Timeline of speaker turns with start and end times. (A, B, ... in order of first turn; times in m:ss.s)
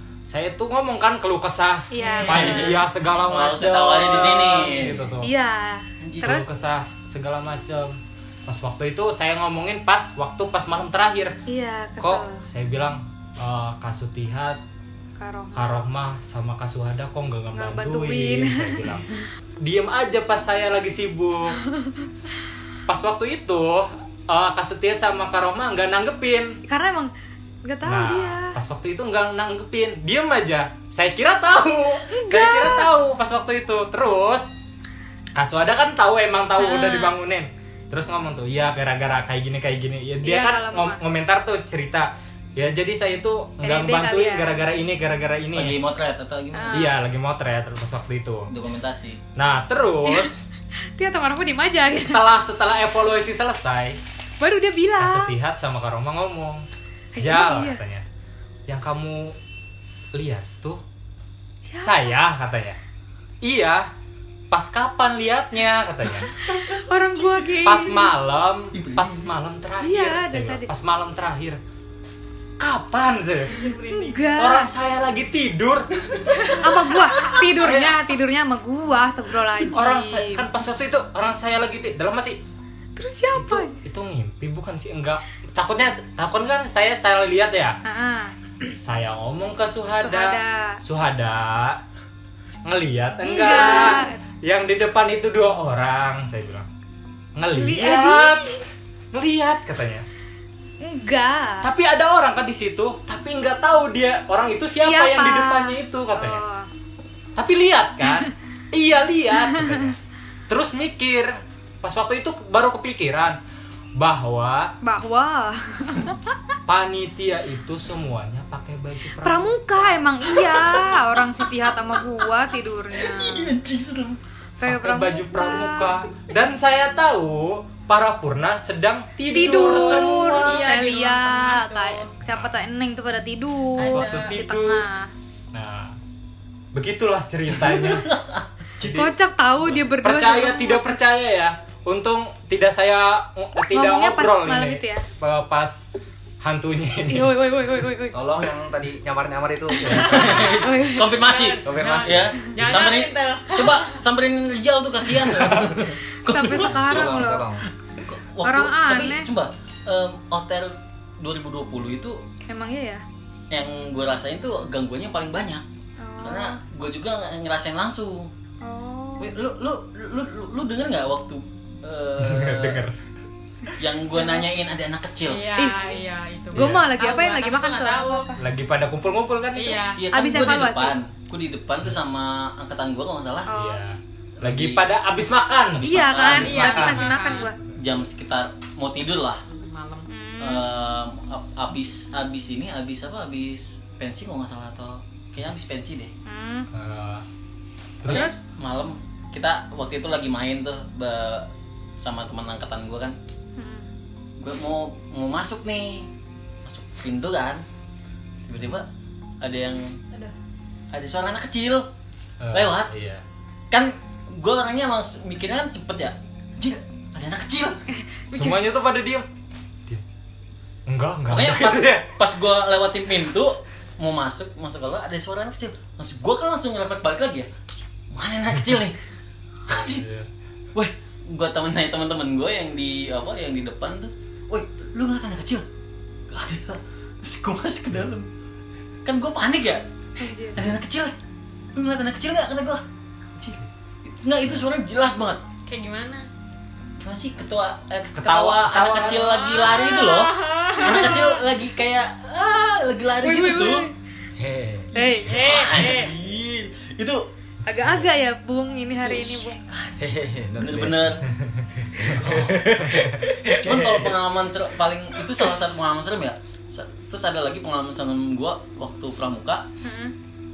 0:00.3-0:05.3 A
0:01.9-0:02.7 B
0:02.2-0:05.1 C
0:05.2-0:06.5 B
0:06.0-0:06.3 C
0:06.2-0:11.4 A
0:11.5-0:12.4 B
0:12.0-0:14.6 A
0:15.2-0:15.9 B
0:15.5-0:19.1 A
0:17.5-0:18.8 B
0:19.6-0:21.6 A
0:22.9-0:26.6 A
0:26.7-0:27.1 B
0:27.6-0:28.6 B
0:27.8-0:34.5 A
0:32.1-0:32.9 B
0:35.4-0:45.8 A
0:36.6-0:37.2 B
0:40.2-0:41.0 B
0:43.6-0:44.6 B
0:45.6-0:46.9 C
0:46.5-0:46.9 B
0:46.7-0:48.5 A
0:48.5-0:49.2 C
0:49.4-0:50.4 A
0:50.1-0:50.3 B
0:51.0-0:52.2 B
0:52.0-0:54.0 A
0:54.4-0:55.3 B
0:55.0-0:56.7 A
0:57.2-0:57.8 B
0:57.2-0:58.0 A
0:58.7-0:59.4 A
1:00.1-1:00.8 A
1:01.7-1:02.2 B
1:01.8-1:02.8 A
1:03.4-1:03.9 A
1:04.5-1:06.3 A
1:06.4-1:08.1 B
1:06.5-1:07.5 C
1:07.6-1:11.6 A
1:08.7-1:09.3 C
1:09.8-1:10.7 B
1:12.6-1:13.8 A
1:13.5-1:14.4 D
1:13.6-1:14.7 B
1:14.4-1:15.9 A
1:16.5-1:20.5 B
1:17.3-1:18.0 A
1:19.7-1:22.4 A
1:23.0-1:23.7 B
1:23.4-1:27.8 A
1:27.8-1:28.3 B
1:28.8-1:31.8 A
1:30.0-1:30.8 B
1:32.6-1:36.7 A
1:33.2-1:34.2 B
1:37.4-1:40.1 A
1:37.6-1:38.6 B
1:40.8-1:41.7 B
1:41.6-1:46.4 A
1:44.8-1:46.7 B
1:47.4-1:50.0 A
1:49.5-1:49.8 B
1:50.5-1:53.4 A
1:54.0-1:54.7 A
1:54.8-1:56.3 B
1:56.7-2:00.0 A
1:59.2-2:03.5 B
2:00.4-2:01.2 C
2:02.9-2:04.2 C
2:04.6-2:05.9 B
2:04.6-2:10.3 A
2:09.3-2:15.1 B
2:09.4-2:10.6 C
2:09.8-2:12.1 D
2:12.3-2:12.6 A
2:13.8-2:14.3 D
2:13.8-2:14.8 A
2:15.5-2:16.0 A
2:16.7-2:18.1 A
2:17.7-2:18.4 C
2:18.8-2:25.9 A
2:18.8-2:21.0 B
2:23.7-2:25.1 B
2:26.4-2:27.4 A
2:27.1-2:28.2 B
2:28.1-2:30.4 E
2:29.9-2:37.2 C
2:30.0-2:30.6 D
2:30.1-2:31.1 B
2:31.2-2:34.0 D
2:31.6-2:32.4 E
2:36.3-2:37.4 B
2:36.5-2:37.6 E
2:38.0-2:42.2 C
2:38.4-2:39.3 B
2:42.5-2:43.0 B
2:43.5-2:45.6 C
2:46.0-2:46.6 B
2:46.2-2:48.3 C
2:48.6-2:49.4 B
2:49.2-2:52.8 C
2:52.2-2:52.9 A
2:53.8-2:55.4 C
2:55.3-2:58.3 D
2:55.6-2:56.0 B
2:56.5-2:58.3 B
2:56.5-2:56.8 A
2:58.4-2:59.8 A
2:59.6-3:00.0 D
3:00.0-3:03.5 C
3:00.1-3:01.0 B
3:03.5-3:03.8 B
3:03.5-3:07.1 A
3:04.4-3:04.8 C
3:05.8-3:07.1 C
3:05.8-3:07.6 B
3:06.3-3:07.5 D
3:07.8-3:09.4 C
3:09.5-3:10.1 D
3:10.1-3:10.6 B
3:10.4-3:16.1 C
3:16.3-3:16.7 B
3:16.7-3:17.3 A
3:18.0-3:18.3 A
3:18.1-3:21.5 C
3:22.0-3:23.2 C
3:23.6-3:23.9 B
3:24.4-3:26.1 C
3:26.6-3:27.6 C
3:28.5-3:28.9 C
3:29.4-3:30.0 C
3:30.9-3:31.9 C
3:32.4-3:33.2 A
3:32.5-3:32.9 C
3:33.7-3:37.8 C
3:38.3-3:38.6 B
3:38.3-3:39.3 A
3:40.9-3:42.1 A
3:41.3-3:49.0 C
3:49.7-3:50.1 C
3:49.7-3:50.3 A
3:50.7-3:55.6 C
3:56.3-3:58.3 C
3:59.1-3:59.8 C
4:00.2-4:00.6 B
4:00.6-4:01.1 C
4:01.8-4:02.8 C
4:03.4-4:05.4 C
4:05.7-4:06.3 D
4:07.0-4:13.9 C
4:08.2-4:09.4 A
4:09.4-4:11.2 D
4:10.8-4:11.4 B
4:13.2-4:13.9 B
4:14.4-4:14.9 E
4:14.9-4:15.9 B
4:15.1-4:16.1 D
4:15.3-4:17.2 C
4:17.6-4:19.6 B
4:19.0-4:19.9 C
4:20.0-4:21.2 E
4:20.6-4:21.2 C
4:21.8-4:24.2 E
4:22.0-4:23.0 C
4:23.5-4:29.7 C
4:29.8-4:30.1 B